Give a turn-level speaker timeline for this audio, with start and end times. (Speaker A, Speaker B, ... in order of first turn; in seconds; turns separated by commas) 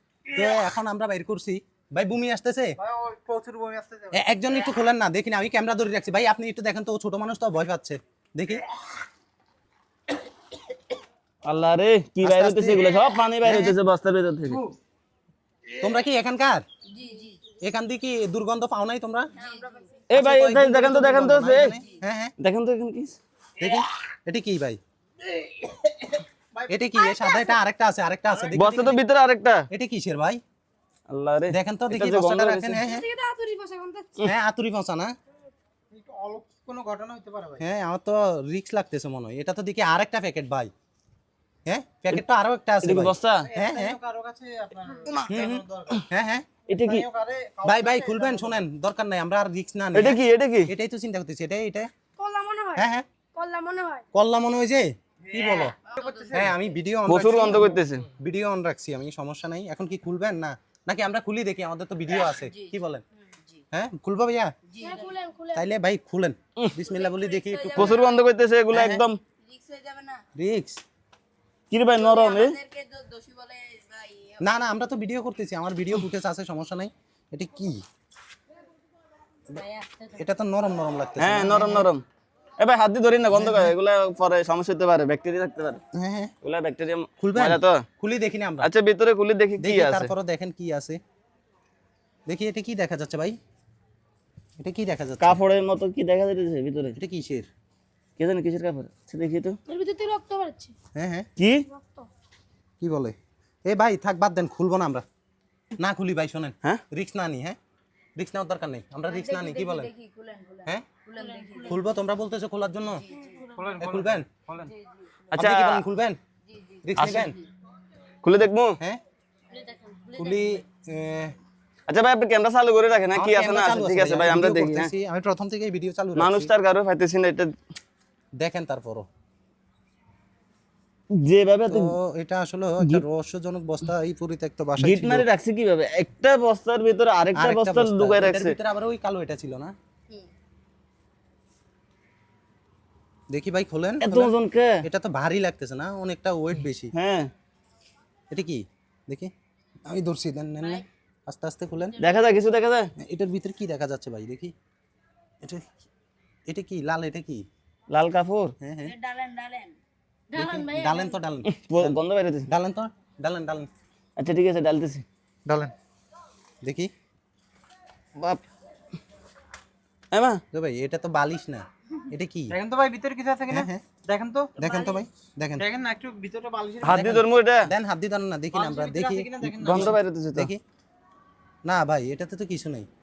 Speaker A: 0.3-2.8, Speaker B: 2.8-4.2, Speaker A: 4.1-8.7, Speaker C: 11.4-14.6, Speaker A: 12.2-13.8, Speaker A: 15.8-16.6, Speaker D: 16.9-17.4, Speaker A: 17.6-19.3, Speaker D: 19.4-20.0, Speaker B: 19.4-19.9, Speaker C: 20.1-21.7, Speaker A: 20.1-22.3, Speaker D: 21.7-22.0, Speaker C: 22.4-23.2, Speaker A: 23.6-24.8, Speaker B: 26.6-26.8, Speaker A: 26.7-29.0, Speaker E: 27.0-27.6, Speaker C: 28.5-29.7, Speaker A: 29.7-30.4, Speaker C: 31.1-32.8, Speaker A: 31.5-33.1, Speaker E: 32.8-34.2, Speaker A: 34.2-35.2, Speaker B: 35.9-37.6, Speaker A: 37.6-40.7, Speaker A: 41.7-44.0, Speaker C: 42.8-43.5, Speaker B: 43.4-46.1, Speaker A: 45.3-46.5, Speaker C: 46.7-47.0, Speaker B: 46.7-48.6, Speaker A: 47.6-51.9, Speaker C: 49.9-50.7, Speaker E: 52.2-54.0, Speaker A: 52.8-53.1, Speaker A: 54.1-55.8, Speaker B: 55.3-56.6, Speaker D: 55.9-56.3, Speaker A: 56.3-63.0, Speaker C: 57.1-58.1, Speaker D: 62.3-62.7, Speaker D: 63.3-63.6, Speaker A: 63.7-64.5, Speaker D: 64.7-65.2, Speaker E: 64.8-65.6, Speaker A: 65.5-68.0, Speaker D: 66.9-68.2, Speaker C: 67.8-69.2, Speaker A: 68.7-69.0, Speaker D: 69.4-70.2, Speaker A: 70.3-70.8, Speaker C: 71.7-72.6, Speaker D: 71.9-74.5, Speaker A: 74.4-77.8, Speaker D: 79.5-80.1, Speaker A: 80.2-81.9, Speaker C: 81.2-82.0, Speaker C: 82.6-85.8, Speaker A: 83.3-83.8, Speaker A: 85.9-86.3, Speaker C: 86.4-87.8, Speaker A: 87.2-88.7, Speaker C: 88.6-90.1, Speaker A: 89.6-91.0, Speaker A: 92.3-93.4, Speaker A: 94.6-95.4, Speaker C: 95.2-97.0, Speaker A: 97.0-97.5, Speaker C: 98.2-99.6, Speaker E: 99.7-100.8, Speaker A: 101.0-101.3, Speaker C: 101.4-101.7, Speaker E: 101.7-102.1, Speaker A: 102.8-105.0, Speaker A: 105.8-107.6, Speaker A: 108.2-109.9, Speaker D: 109.1-111.8, Speaker E: 111.2-111.8, Speaker A: 111.6-113.0, Speaker D: 113.0-113.6, Speaker B: 113.5-114.7, Speaker A: 113.8-114.3, Speaker D: 114.7-115.0, Speaker C: 115.3-115.9, Speaker A: 115.3-116.2, Speaker D: 116.5-117.5, Speaker A: 116.8-117.4, Speaker C: 117.0-117.3, Speaker C: 118.2-118.8, Speaker D: 119.6-120.4, Speaker A: 120.2-121.4, Speaker C: 121.9-124.9, Speaker A: 123.1-126.5, Speaker C: 126.2-127.6, Speaker A: 128.4-129.1, Speaker C: 131.1-131.9, Speaker A: 131.7-135.3, Speaker C: 134.8-138.6, Speaker A: 137.3-139.8, Speaker A: 143.3-146.9, Speaker C: 144.0-144.8, Speaker C: 146.9-147.3, Speaker A: 148.3-149.3, Speaker A: 149.9-152.0, Speaker D: 150.6-150.8, Speaker C: 152.0-152.9, Speaker A: 153.0-154.5, Speaker A: 155.4-155.7, Speaker A: 156.5-157.5, Speaker C: 157.9-158.5, Speaker A: 158.6-158.9, Speaker D: 158.8-159.8, Speaker E: 160.3-161.1, Speaker A: 160.3-163.7, Speaker C: 161.5-162.5, Speaker C: 164.2-165.1, Speaker A: 165.5-165.7, Speaker A: 166.6-166.9, Speaker C: 168.2-168.4, Speaker C: 170.1-170.4, Speaker A: 170.5-172.6, Speaker B: 172.5-175.0, Speaker A: 173.5-173.8, Speaker A: 174.6-175.7, Speaker B: 175.6-177.0, Speaker C: 176.8-177.7, Speaker A: 176.8-180.6, Speaker B: 178.5-180.0, Speaker C: 179.6-180.5, Speaker A: 181.6-182.9